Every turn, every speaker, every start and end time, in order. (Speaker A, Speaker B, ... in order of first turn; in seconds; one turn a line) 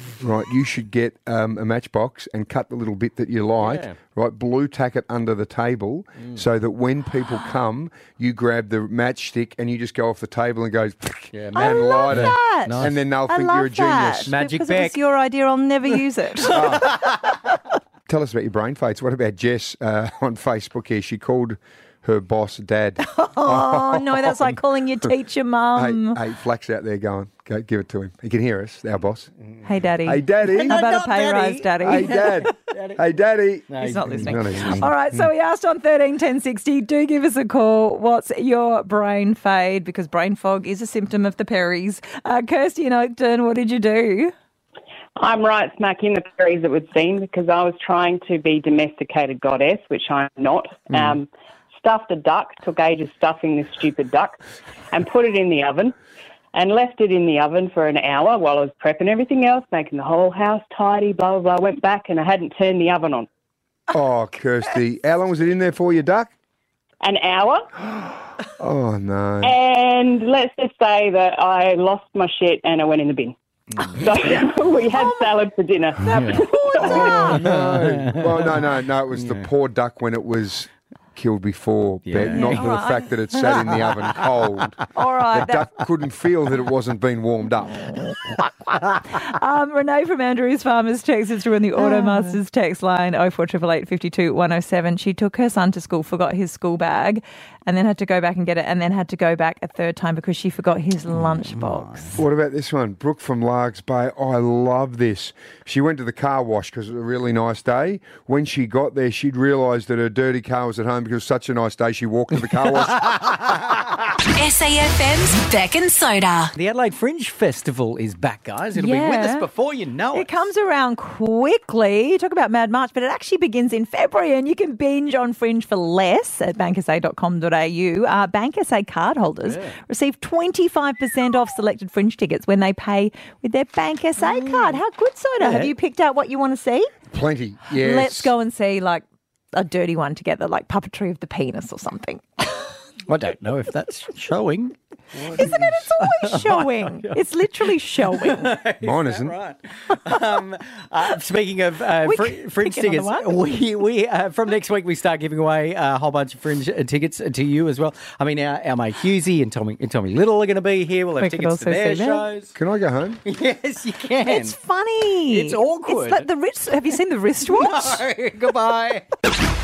Speaker A: 0.2-14.3
Speaker B: 3.6-4.0
Speaker B: 11.3-13.0
Speaker C: 11.6-16.9
Speaker B: 14.3-15.0
Speaker A: 16.5-17.0
Speaker B: 16.5-17.2
Speaker A: 18.1-25.1
Speaker C: 23.0-26.2
Speaker A: 25.8-29.3
Speaker C: 29.6-32.6
Speaker A: 30.0-30.9
Speaker B: 30.4-33.0
Speaker A: 31.8-34.9
Speaker B: 33.7-34.9
Speaker C: 33.8-44.3
Speaker D: 45.2-54.4
Speaker D: 54.9-56.0
Speaker D: 56.5-63.3
Speaker A: 63.9-66.3
Speaker D: 67.0-67.7
Speaker A: 67.8-69.6
Speaker D: 69.4-73.4
Speaker D: 74.0-77.3
Speaker C: 76.0-77.5
Speaker B: 76.1-76.4
Speaker A: 76.8-84.8
Speaker B: 77.3-79.5
Speaker B: 82.1-82.8
Speaker C: 82.3-83.1
Speaker B: 83.4-84.6
Speaker C: 85.0-85.7
Speaker A: 85.3-87.9
Speaker C: 89.1-102.2
Speaker B: 101.3-102.1
Speaker A: 102.2-113.5
Speaker B: 112.6-113.3
Speaker E: 114.3-116.5
Speaker B: 116.5-120.5
Speaker C: 118.8-119.5
Speaker C: 120.1-136.9
Speaker B: 129.4-129.8
Speaker B: 134.2-134.8
Speaker B: 135.4-135.7
Speaker A: 137.1-138.3
Speaker C: 137.8-139.0
Speaker C: 139.5-142.6
Speaker B: 143.1-162.6
Speaker A: 145.2-145.8
Speaker C: 145.4-148.5
Speaker A: 148.8-149.3
Speaker C: 152.0-153.3
Speaker C: 161.2-162.3
Speaker A: 162.6-163.2
Speaker B: 163.2-164.6
Speaker C: 164.2-168.0
Speaker B: 165.3-166.3
Speaker B: 167.4-169.1